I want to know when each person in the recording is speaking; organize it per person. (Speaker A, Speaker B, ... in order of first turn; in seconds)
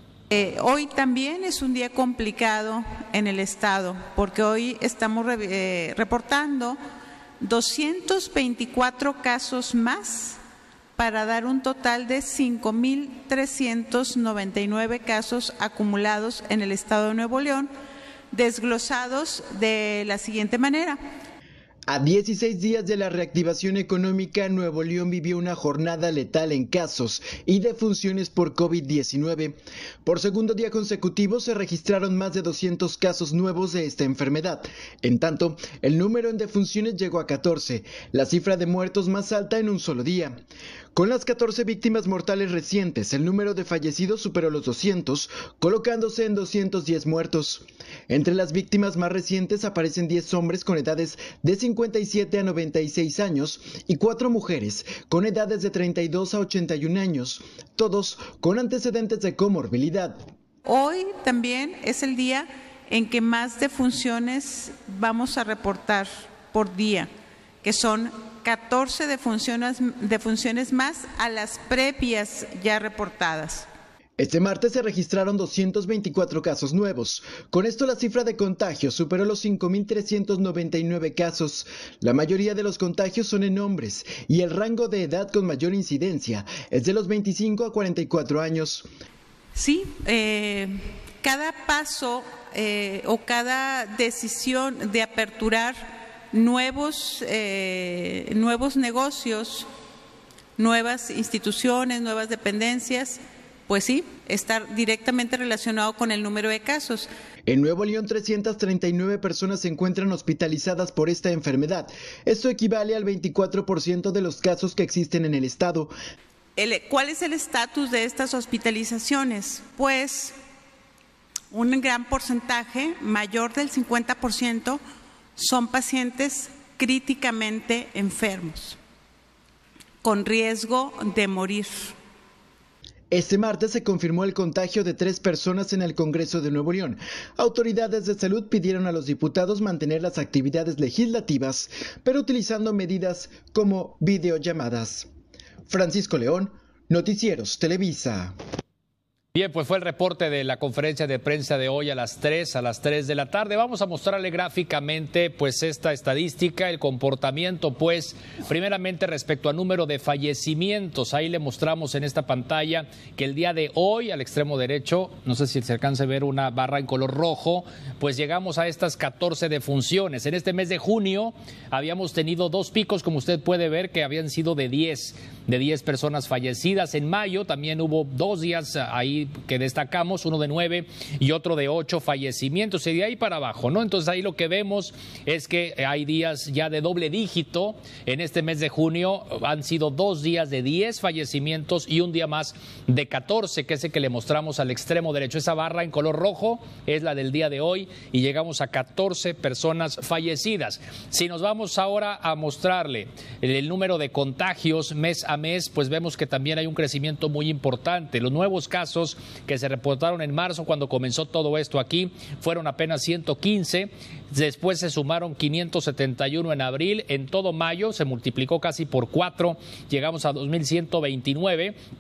Speaker A: 0.3-6.8, 7.4-10.4, 11.0-17.7, 18.3-21.0, 60.6-67.1, 67.6-73.7, 89.5-99.7, 100.6-107.1, 116.6-120.3, 121.5-124.8, 125.4-128.8, 130.0-131.9
Speaker B: 21.9-40.4, 40.9-60.2, 74.2-88.9, 107.5-115.9, 133.1-145.1, 145.7-148.3
Speaker C: 149.3-221.7